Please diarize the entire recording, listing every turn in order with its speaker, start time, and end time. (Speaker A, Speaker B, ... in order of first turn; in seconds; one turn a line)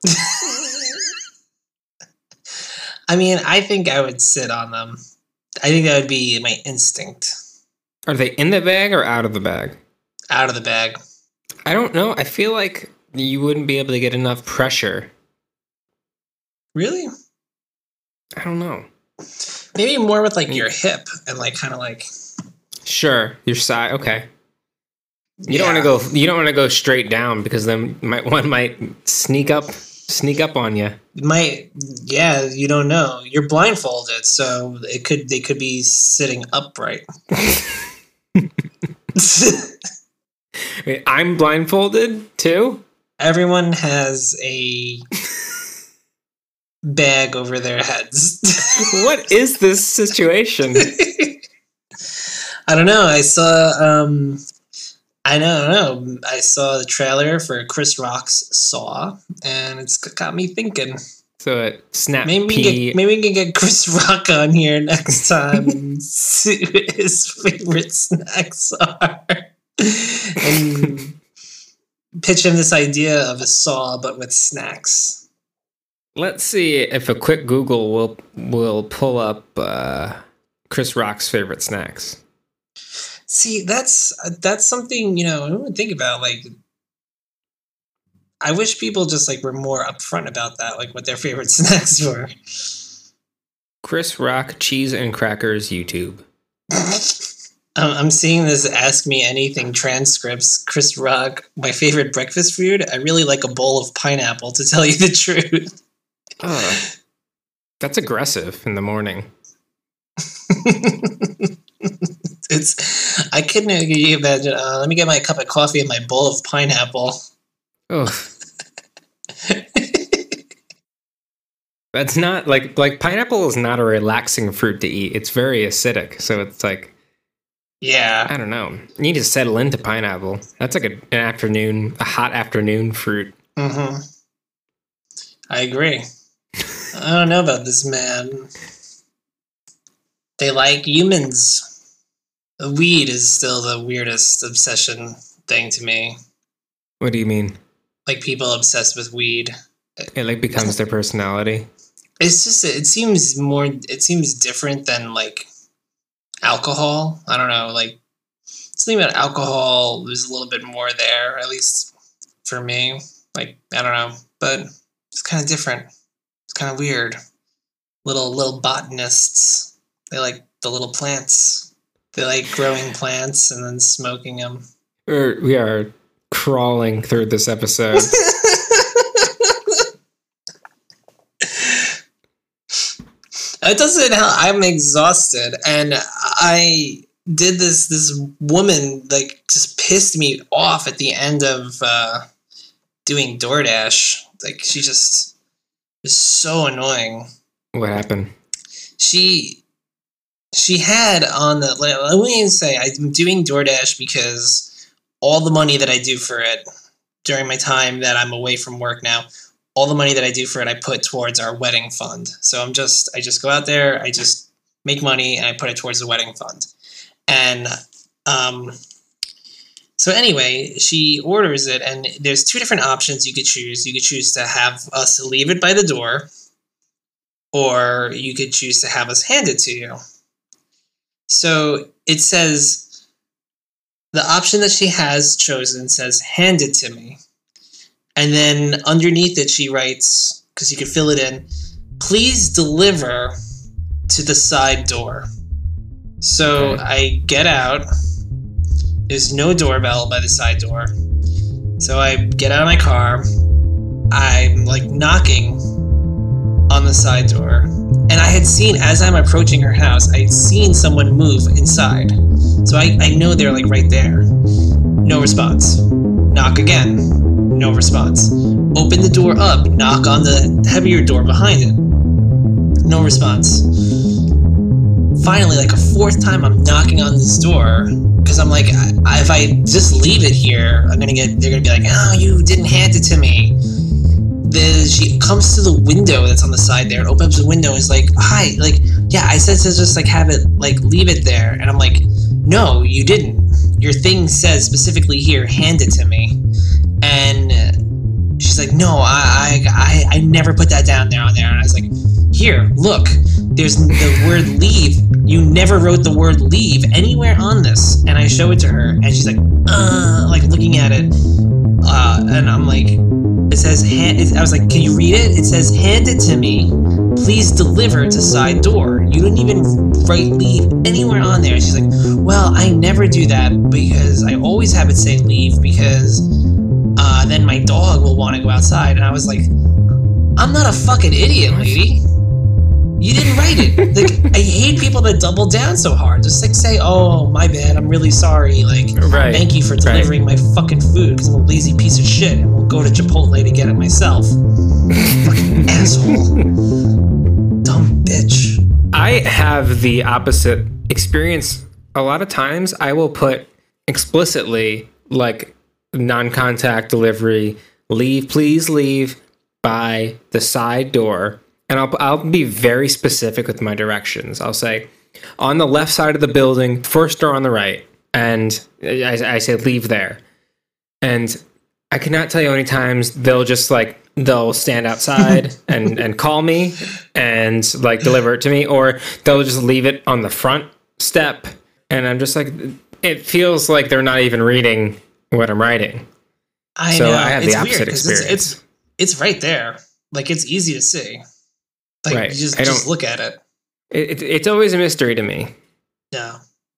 Speaker A: 0.1-0.8
Speaker A: 3.1-5.0
Speaker A: 5.6-7.3
Speaker B: 8.1-9.8
Speaker A: 10.3-11.0
Speaker B: 11.7-15.1
Speaker A: 16.7-17.1
Speaker B: 18.4-18.9
Speaker A: 19.7-22.1
Speaker B: 22.8-24.3
Speaker A: 25.4-25.9
Speaker B: 25.5-31.0
Speaker A: 31.1-37.0
Speaker B: 37.4-37.8
Speaker A: 39.1-39.7
Speaker B: 40.8-42.8
Speaker A: 43.2-45.0
Speaker A: 46.8-48.8
Speaker B: 48.8-50.9
Speaker A: 50.8-51.4
Speaker A: 52.2-54.4
Speaker A: 55.2-61.0
Speaker B: 61.4-63.0
Speaker A: 62.2-71.1
Speaker B: 70.4-70.9
Speaker A: 72.2-75.2
Speaker B: 76.2-82.2
Speaker A: 83.3-86.5
Speaker A: 88.4-92.3
Speaker B: 93.8-96.2
Speaker A: 96.7-97.2
Speaker A: 97.8-105.7
Speaker B: 106.4-106.8
Speaker B: 107.8-109.3
Speaker A: 110.5-111.5
Speaker A: 112.5-117.2
Speaker B: 117.9-118.3
Speaker A: 119.4-120.2
Speaker B: 121.9-126.9
Speaker A: 127.8-128.3
Speaker B: 128.3-133.3
Speaker A: 133.6-134.0
Speaker A: 135.5-136.0
Speaker A: 136.9-138.5
Speaker A: 140.4-141.7
Speaker A: 142.6-146.2
Speaker B: 147.0-147.6
Speaker A: 148.1-149.5
Speaker B: 150.1-151.7
Speaker A: 152.2-155.5
Speaker A: 156.4-158.0
Speaker A: 158.8-161.9
Speaker A: 162.4-165.9
Speaker A: 166.5-167.2
Speaker A: 168.1-174.6
Speaker B: 175.1-178.1
Speaker A: 178.1-179.8
Speaker A: 181.4-181.9
Speaker A: 183.6-192.2
Speaker A: 193.1-195.3
Speaker A: 196.0-197.3
Speaker B: 197.7-198.3
Speaker A: 199.0-199.6
Speaker A: 200.5-204.7
Speaker A: 205.2-206.6
Speaker A: 207.2-216.7
Speaker A: 217.3-217.7
Speaker A: 218.3-218.8
Speaker A: 220.0-226.3
Speaker A: 227.5-230.0
Speaker A: 231.3-232.8
Speaker A: 234.1-237.2
Speaker A: 238.2-241.4
Speaker A: 242.0-243.3
Speaker A: 244.1-245.3
Speaker A: 246.2-247.9
Speaker B: 246.5-246.8
Speaker A: 249.1-250.9
Speaker A: 251.8-253.3
Speaker A: 254.1-255.6
Speaker A: 256.7-262.1
Speaker A: 262.6-264.3
Speaker A: 265.0-271.8
Speaker A: 272.8-273.7
Speaker A: 275.2-283.6
Speaker A: 284.4-296.4
Speaker A: 297.0-297.8
Speaker A: 298.4-311.1
Speaker A: 311.8-326.2
Speaker A: 327.0-329.5
Speaker A: 330.4-332.0
Speaker B: 331.5-331.8
Speaker A: 333.0-344.4
Speaker B: 333.6-334.1
Speaker B: 339.0-340.1
Speaker B: 345.1-346.1
Speaker A: 345.2-346.4
Speaker A: 347.6-348.6
Speaker B: 348.9-364.9
Speaker B: 365.4-370.2
Speaker B: 371.0-371.4
Speaker B: 371.9-386.1
Speaker A: 386.8-391.2
Speaker B: 386.9-388.6
Speaker A: 392.0-393.4
Speaker B: 392.1-392.9
Speaker B: 393.9-395.5
Speaker A: 396.1-396.4